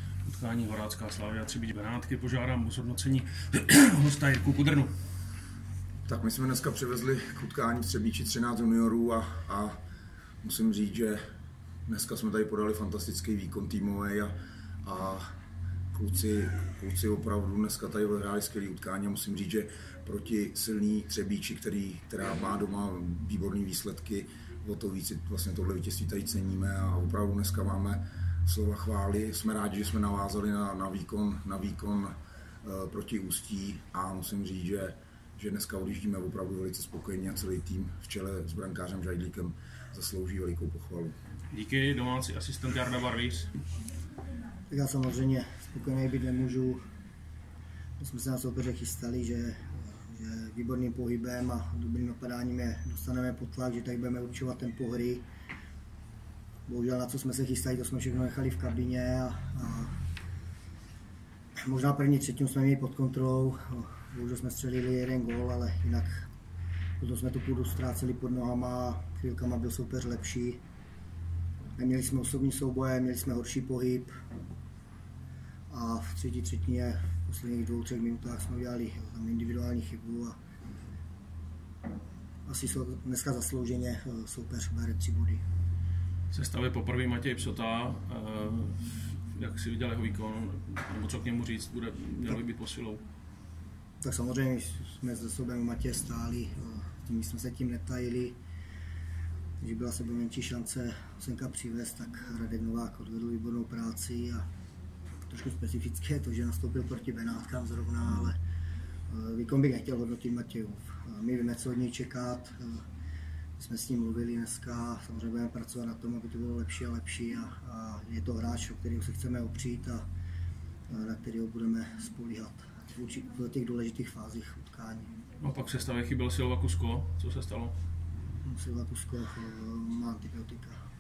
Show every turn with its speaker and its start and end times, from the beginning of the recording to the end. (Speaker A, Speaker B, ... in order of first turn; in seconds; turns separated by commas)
Speaker A: 0.2-4.9, Speaker B: 6.1-9.8, Speaker B: 10.4-11.2, Speaker B: 11.9-15.3, Speaker B: 15.9-41.2, Speaker A: 41.5-43.6, Speaker C: 44.7-46.8, Speaker C: 48.0-55.3, Speaker C: 56.7-60.0, Speaker C: 61.6-66.3, Speaker C: 67.0-70.6, Speaker C: 71.8-74.1, Speaker C: 75.7-80.4, Speaker C: 82.5-85.4, Speaker A: 86.3-93.0, Speaker C: 94.0-98.4, Speaker C: 99.6-104.4, Speaker C: 105.3-108.4, Speaker C: 109.1-112.8, Speaker C: 113.6-120.0, Speaker C: 120.9-125.1, Speaker A: 125.4-127.7, Speaker C: 128.4-130.8